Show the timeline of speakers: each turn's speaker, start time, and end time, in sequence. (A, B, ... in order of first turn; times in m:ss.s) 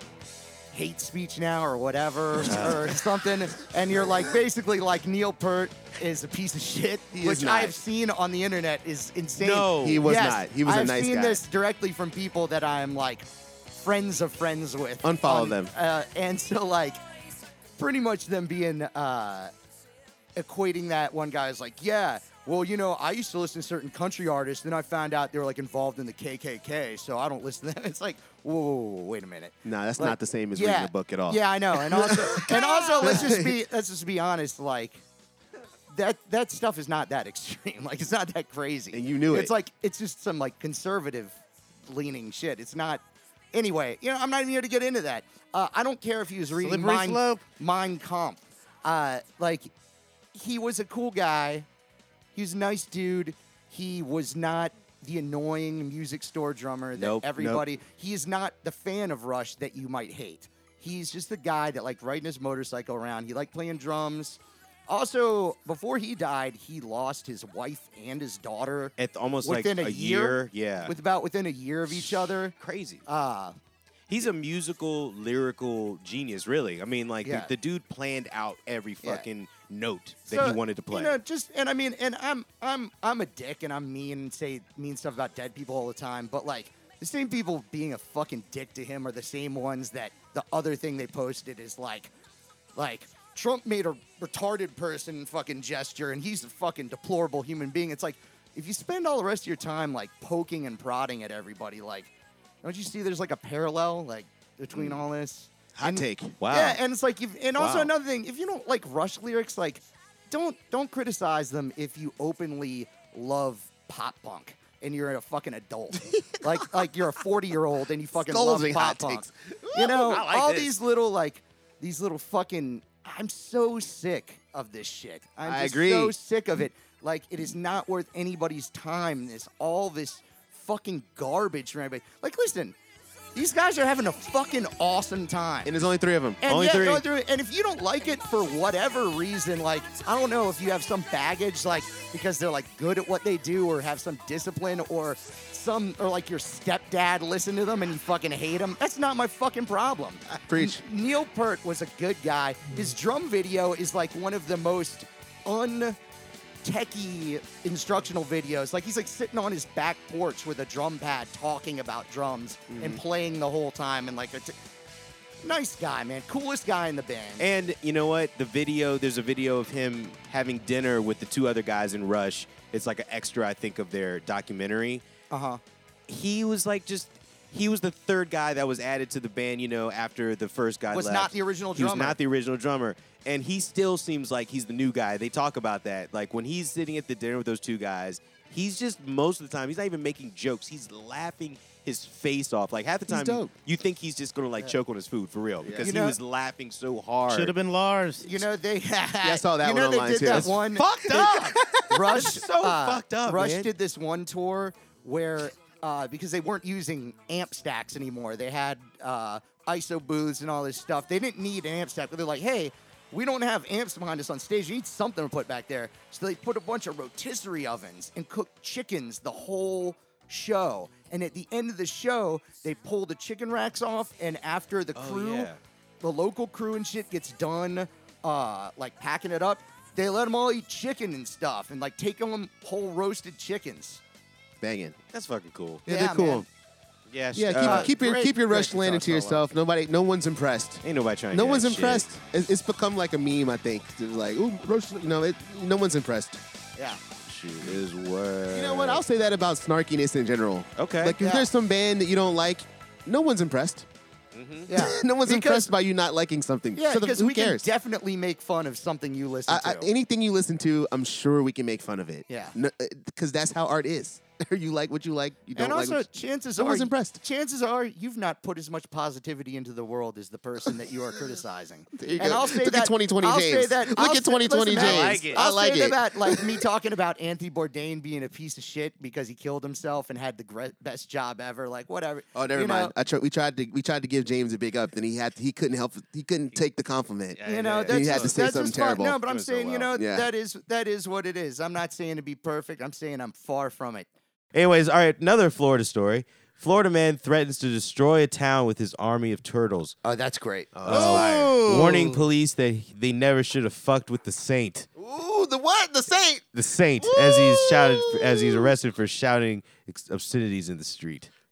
0:00.7-0:17.0 A
0:02.4-0:02.9 B
0:07.1-0:07.8 C
0:09.4-0:10.0 B
0:09.8-0:11.4 C
0:15.0-0:15.7 C
0:17.8-0:19.5 A
0:20.4-0:35.0 A
0:29.6-0:33.5 C
0:35.9-0:41.4 A
0:38.9-0:39.5 C
0:41.9-0:43.0 A
0:43.5-0:49.7 A
0:46.6-0:47.4 D
0:50.3-0:51.6 A
0:52.3-1:12.5 A
0:57.0-0:57.6 B
1:09.0-1:10.9 B
1:12.0-1:13.0 B
1:13.0-1:13.6 A
1:14.1-1:21.2 B
1:17.2-1:17.5 A
1:20.3-1:32.1 A
1:32.8-1:42.1 A
1:42.6-2:12.8 A
1:45.7-1:46.4 C
1:46.4-1:46.8 B
1:47.6-1:47.9 B
1:58.2-2:00.0 C
1:59.9-2:00.7 B
2:05.4-2:06.1 C
2:13.3-2:15.7 A
2:15.6-2:16.4 C
2:16.4-2:36.0 A
2:16.5-2:17.0 B
2:30.4-2:30.8 C
2:36.6-2:44.5 A
2:42.7-2:43.0 B
2:45.4-2:47.4 A
2:47.4-2:55.0 B
2:55.3-2:55.6 A
2:56.1-3:17.5 B
3:00.9-3:02.2 A
3:13.1-3:13.5 C
3:15.6-3:15.9 C
3:15.8-3:16.2 A
3:17.3-3:18.4 D
3:18.2-3:45.5 A
3:19.2-3:20.6 C
3:20.3-3:23.7 B
3:45.0-3:45.6 B
3:46.0-3:54.0 A
3:54.6-3:55.0 C
3:55.1-3:55.8 B
3:55.8-3:56.4 C
3:55.9-3:56.4 A
3:57.1-3:57.9 B
3:57.3-4:06.4 C
3:57.6-3:59.4 A
3:58.6-3:59.3 B
4:00.8-4:02.1 B
4:07.3-4:09.0 B
4:08.5-4:13.8 C
4:10.8-4:11.2 B
4:11.2-4:11.5 A
4:14.3-4:14.7 B
4:14.7-4:15.7 A
4:14.7-4:17.7 C
4:16.8-4:19.9 A
4:19.5-4:27.2 C
4:22.3-4:22.5 A
4:25.6-4:42.9 A
4:32.0-4:36.6 C
4:34.7-4:35.4 B
4:42.3-4:49.2 C
4:47.3-4:48.4 B
4:47.4-4:54.1 A
4:49.2-4:49.9 B
4:49.9-4:50.3 C
4:54.5-5:00.0 B
5:00.0-5:01.0 A
5:00.7-5:01.5 C
5:00.8-5:04.8 B
5:00.9-5:02.2 D
5:05.0-5:06.4 C
5:06.5-5:11.3 B
5:07.0-5:08.7 C